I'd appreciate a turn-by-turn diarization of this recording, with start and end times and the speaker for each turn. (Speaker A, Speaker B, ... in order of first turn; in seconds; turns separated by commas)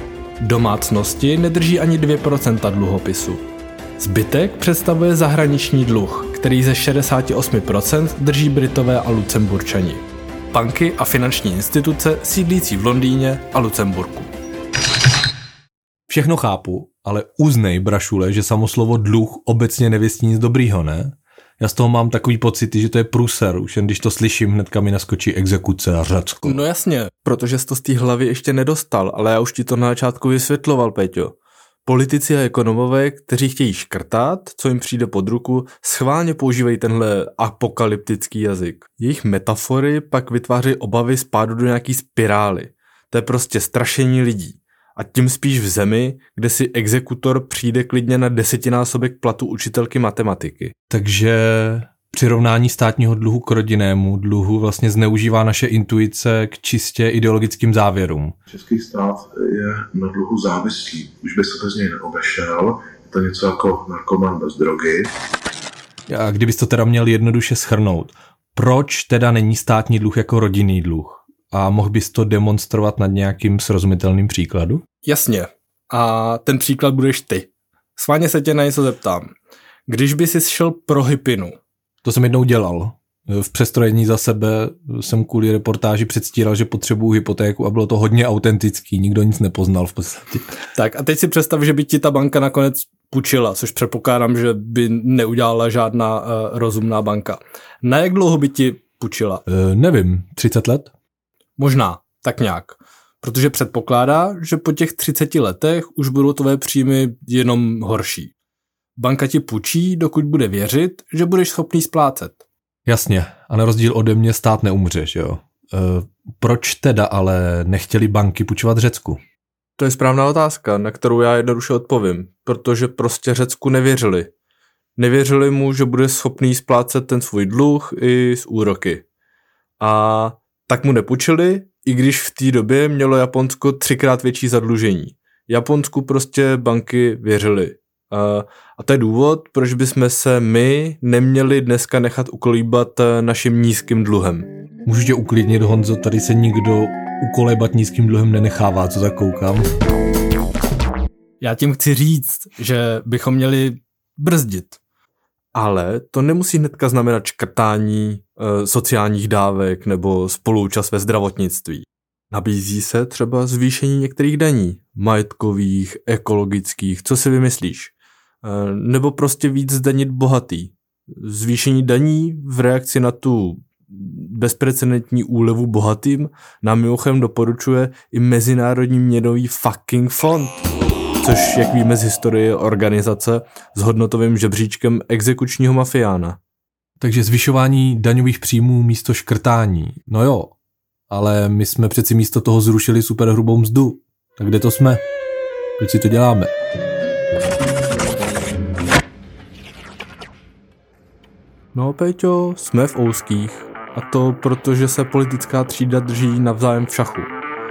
Speaker A: 0.4-3.4, Speaker A: 4.0-14.3, Speaker B: 16.1-26.6, Speaker A: 26.4-31.3, Speaker A: 31.9-50.7, Speaker B: 50.9-58.4, Speaker C: 58.5-65.1, Speaker B: 66.1-74.8, Speaker A: 75.0-79.3, Speaker A: 79.9-81.6, Speaker B: 82.0-90.5, Speaker A: 90.7-99.4, Speaker B: 99.5-100.9, Speaker A: 101.6-108.3, Speaker A: 109.0-112.4, Speaker B: 112.9-119.2, Speaker A: 119.8-124.3, Speaker A: 125.0-129.0, Speaker A: 129.8-144.5, Speaker B: 144.9-149.7, Speaker A: 151.4-154.8, Speaker A: 155.6-180.6, Speaker A: 181.2-186.4, Speaker B: 187.0-190.6, Speaker B: 191.1-195.0, Speaker B: 195.8-196.5, Speaker A: 201.7-207.3